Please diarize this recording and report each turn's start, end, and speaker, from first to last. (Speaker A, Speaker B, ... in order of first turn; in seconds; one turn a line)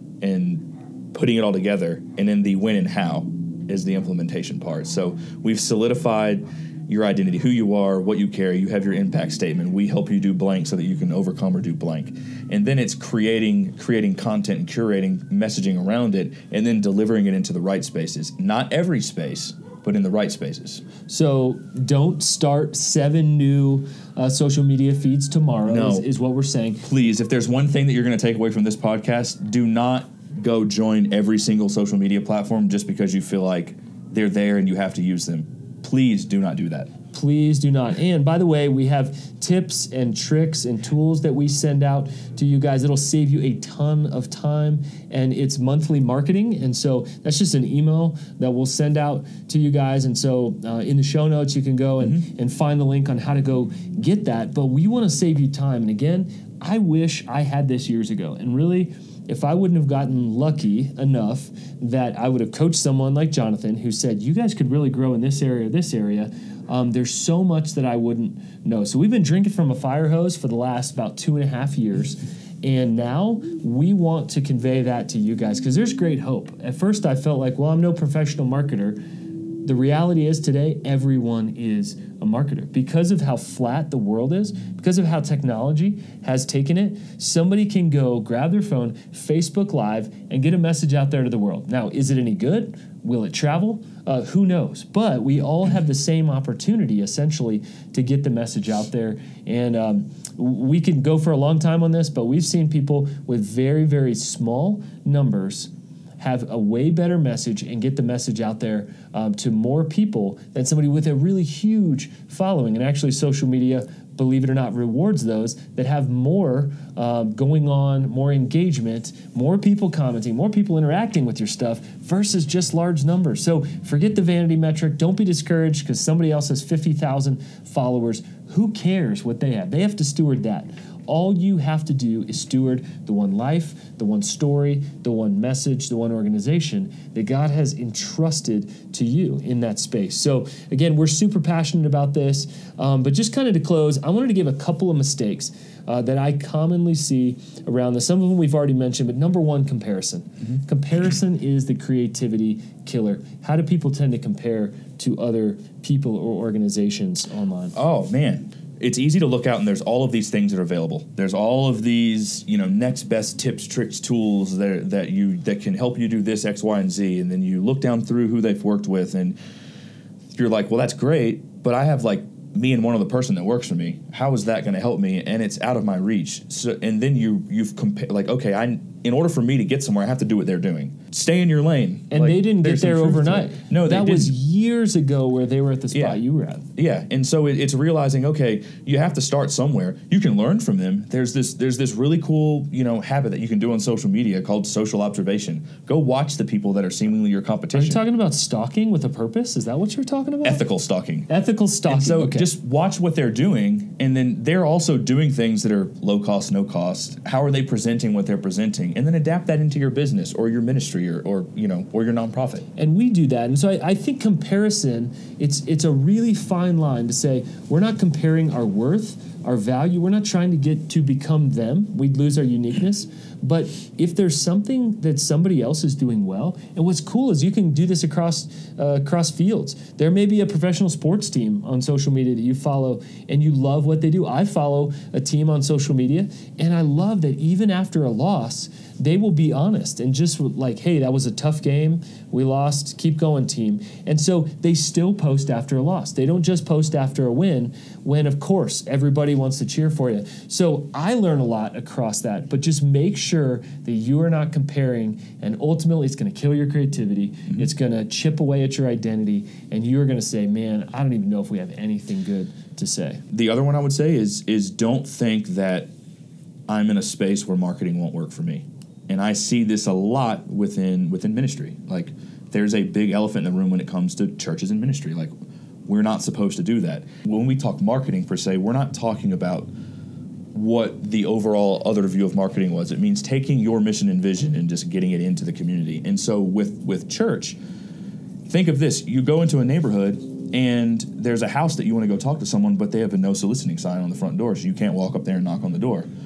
Speaker A: 0.2-20.9
Speaker B: 21.1-26.8
Speaker A: 25.7-26.1
Speaker A: 26.8-36.9
Speaker B: 37.1-79.0
Speaker B: 79.6-157.8
Speaker A: 157.7-169.4
Speaker A: 170.3-184.3
Speaker B: 182.1-186.7
Speaker A: 185.9-186.2
Speaker A: 186.8-198.0
Speaker B: 197.7-200.6
Speaker A: 200.4-201.3
Speaker B: 201.3-202.5
Speaker A: 201.9-212.7
Speaker B: 212.8-263.2
Speaker A: 263.3-265.9
Speaker A: 266.7-275.3
Speaker A: 275.9-279.7
Speaker A: 280.5-287.6
Speaker A: 288.5-296.1